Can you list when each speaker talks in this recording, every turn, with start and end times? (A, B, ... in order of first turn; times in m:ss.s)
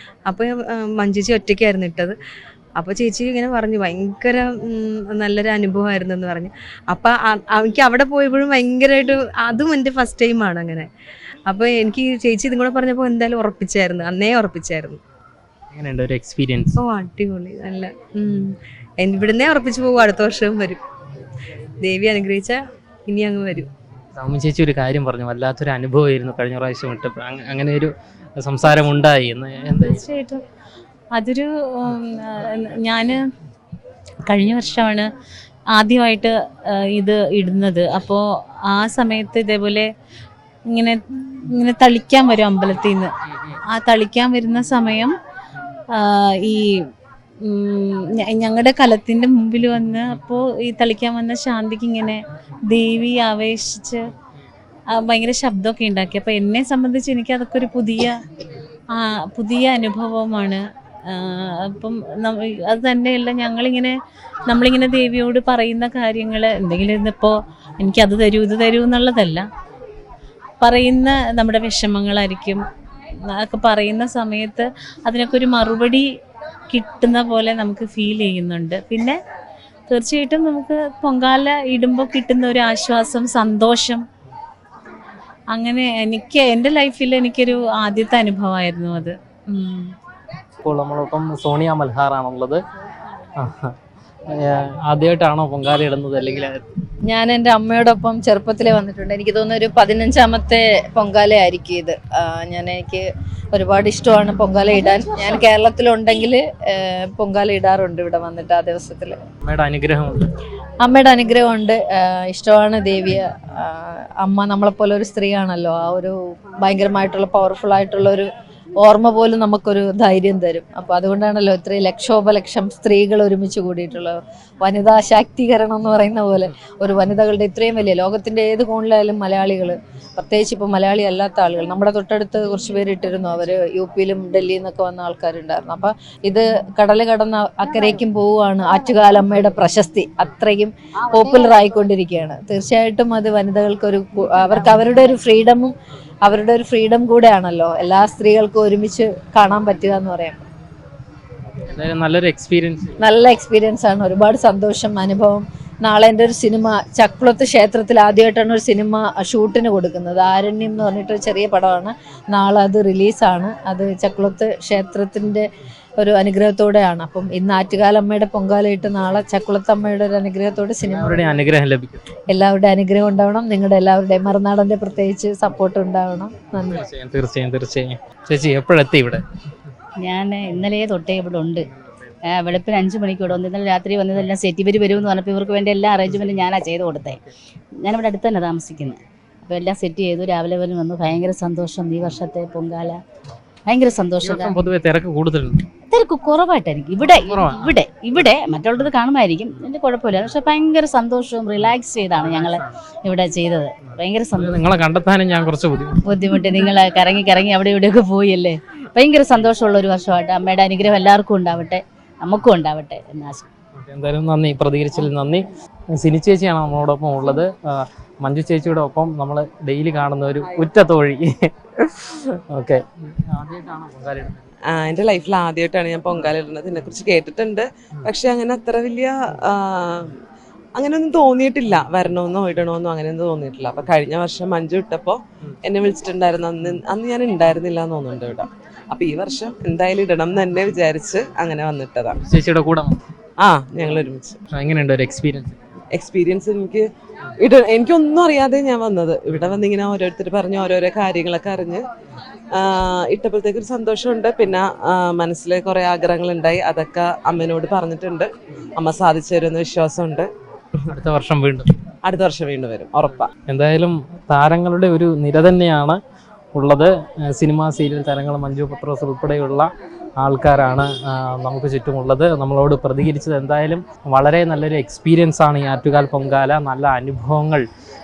0:00.2-0:02.2 A
0:02.8-0:10.9 A
0:11.5-0:15.0 A
0:15.7-0:16.8 B
0:16.8-0:20.8 A
0:21.8-0:23.7 A
0:24.1-0:30.0 B
0:29.7-0:30.4 C
0:31.1-0:33.2 C
0:34.3-0:35.1 C
0:35.7-0:39.9 C
0:40.7-0:45.1 C
0:45.9-0:46.8 C
0:47.4-0:54.0 C
0:54.9-0:58.2 C
0:58.9-1:03.9 C
1:04.5-1:09.4 C
1:10.6-1:12.6 C
1:13.2-1:16.1 C
1:16.7-1:19.2 C
1:19.9-1:24.0 C
1:25.5-1:29.9 C
1:30.6-1:32.6 B
1:33.4-1:33.7 B
1:34.3-1:36.6 B
1:37.1-1:49.2 D
1:49.4-1:50.3 B
1:50.8-1:58.3 D
1:58.8-2:25.7 D
2:26.2-2:30.4 D
2:31.6-2:33.0 B
2:33.0-2:51.4 D
2:50.8-2:52.0 B
2:52.3-2:56.8 D
2:56.7-2:59.2 B
3:00.0-3:01.6 E
3:02.2-3:07.2 E
3:07.8-3:13.0 E
3:13.6-3:14.6 E
3:14.2-3:15.6 B
3:15.8-3:24.5 E
3:17.0-3:17.8 B
3:24.3-3:26.1 B
3:26.1-3:33.4 E
3:33.8-3:44.4 B
3:44.7-3:50.2 F
3:50.8-4:02.2 F
4:02.2-4:03.0 B
4:03.4-4:04.4 F
4:04.5-4:05.6 B
4:05.9-4:06.9 F
4:07.4-4:11.8 F
4:12.5-4:20.3 F
4:20.9-4:21.8 B
4:22.0-4:23.3 F
4:23.4-4:26.0 B
4:26.5-4:37.6 B